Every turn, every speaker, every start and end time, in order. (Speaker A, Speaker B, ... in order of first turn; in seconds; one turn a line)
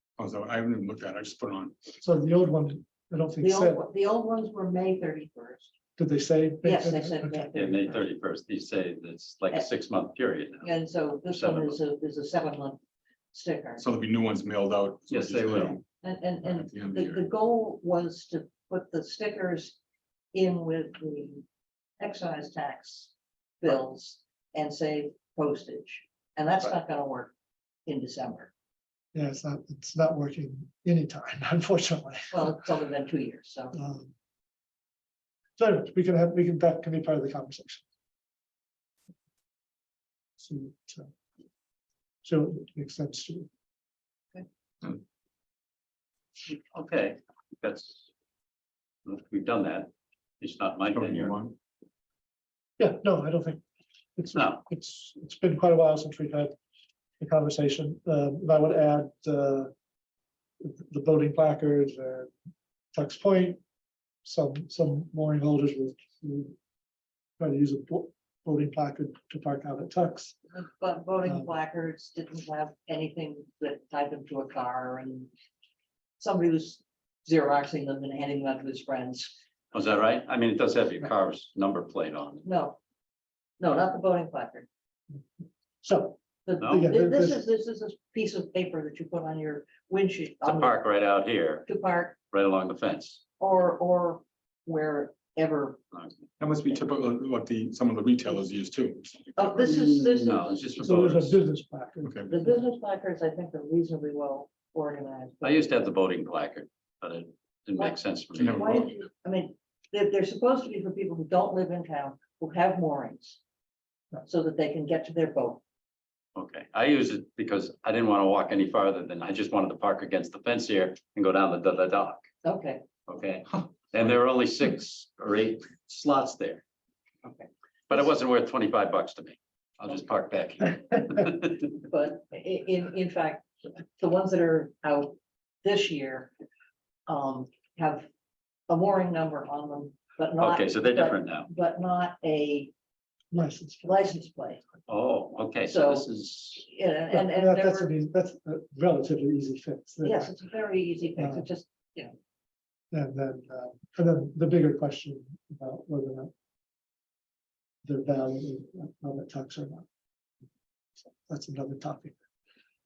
Speaker A: 0.2-1.8
Speaker B: 2.0-3.8
Speaker C: 3.4-5.7
Speaker B: 6.0-7.5
Speaker C: 6.6-8.0
Speaker D: 7.5-11.8
Speaker C: 10.6-12.8
Speaker C: 13.3-13.8
Speaker A: 13.8-15.8
Speaker D: 15.1-15.8
Speaker C: 16.0-19.8
Speaker A: 16.4-17.2
Speaker C: 20.3-21.4
Speaker C: 22.0-27.3
Speaker C: 27.9-28.5
Speaker B: 29.1-32.6
Speaker C: 32.3-33.8
Speaker B: 33.7-34.1
Speaker B: 35.6-37.9
Speaker B: 40.4-41.1
Speaker B: 42.2-43.5
Speaker D: 46.5-48.1
Speaker D: 49.0-49.9
Speaker D: 50.4-51.4
Speaker A: 50.9-51.5
Speaker B: 52.8-53.6
Speaker B: 54.2-56.5
Speaker D: 54.4-54.6
Speaker B: 57.2-59.7
Speaker B: 60.6-62.3
Speaker B: 62.9-63.6
Speaker B: 64.2-66.6
Speaker B: 67.4-70.3
Speaker C: 70.5-75.3
Speaker B: 71.3-71.5
Speaker C: 76.2-79.4
Speaker D: 79.7-82.5
Speaker C: 82.4-82.8
Speaker C: 83.6-84.7
Speaker B: 85.8-87.4
Speaker C: 86.5-90.8
Speaker D: 90.5-91.7
Speaker C: 91.7-92.2
Speaker D: 92.3-93.2
Speaker C: 93.4-95.8
Speaker A: 96.4-99.5
Speaker C: 99.3-100.6
Speaker D: 99.6-101.4
Speaker B: 100.8-102.6
Speaker A: 102.0-102.3
Speaker C: 102.3-105.7
Speaker D: 105.4-108.8
Speaker C: 107.8-113.4
Speaker A: 108.4-108.8
Speaker C: 114.2-115.6
Speaker D: 116.3-122.2
Speaker C: 122.4-122.8
Speaker D: 123.1-126.6
Speaker C: 127.2-127.5
Speaker D: 127.9-131.7
Speaker C: 131.9-133.5
Speaker C: 134.0-136.3
Speaker C: 137.1-138.1
Speaker C: 138.7-142.7
Speaker D: 140.4-141.5
Speaker B: 143.3-144.1
Speaker C: 143.8-144.6
Speaker D: 144.9-146.7
Speaker C: 145.7-147.9
Speaker B: 147.1-150.3
Speaker C: 150.0-152.1
Speaker B: 151.2-151.5
Speaker B: 152.9-156.3
Speaker B: 157.8-159.9
Speaker B: 161.2-162.2